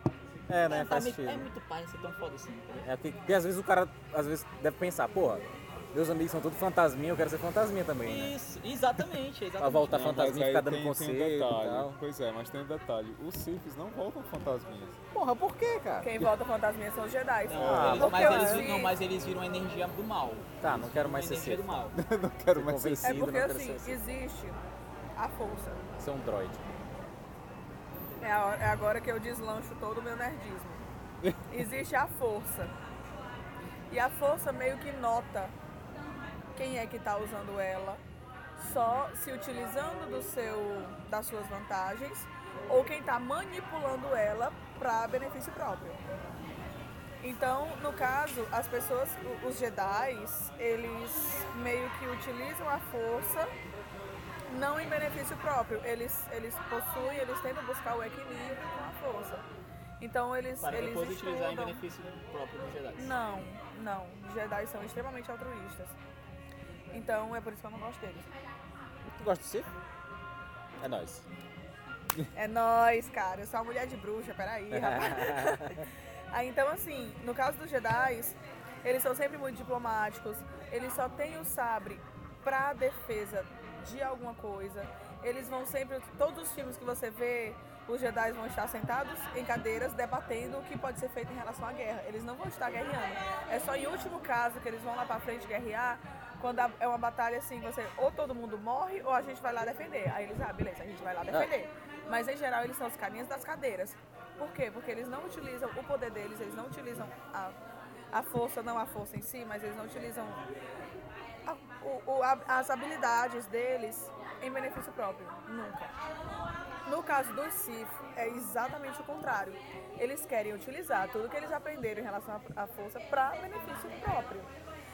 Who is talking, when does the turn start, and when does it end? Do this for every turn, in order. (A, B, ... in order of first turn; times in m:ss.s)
0:00.5-0:01.5 A
0:00.6-0:02.9 B
0:02.8-0:08.3 A
0:08.0-0:10.3 B
0:09.6-0:12.0 A
0:09.9-0:15.0 C
0:15.1-0:16.1 A
0:16.0-0:19.0 D
0:17.4-0:22.0 B
0:17.6-0:18.0 C
0:17.6-0:18.8 A
0:20.6-0:21.8 A
0:21.9-0:23.3 C
0:22.5-0:24.0 A
0:23.0-0:24.6 D
0:25.1-0:25.8 D
0:26.0-0:26.7 A
0:28.2-0:30.9 D
0:31.5-0:32.7 D
0:33.9-0:35.5 D
0:36.5-0:38.0 D
0:38.6-0:46.0 D
0:47.2-0:53.5 D
0:54.5-0:59.5 D
1:00.0-1:01.8 D
1:00.6-1:03.1 B
1:03.0-1:06.0 D
1:06.9-1:08.3 D
1:09.0-1:09.7 A
1:10.8-1:11.2 A
1:12.3-1:47.6 D
1:14.7-1:15.8 A
1:48.1-1:50.4 D
1:51.4-1:55.9 D
1:56.8-2:04.5 D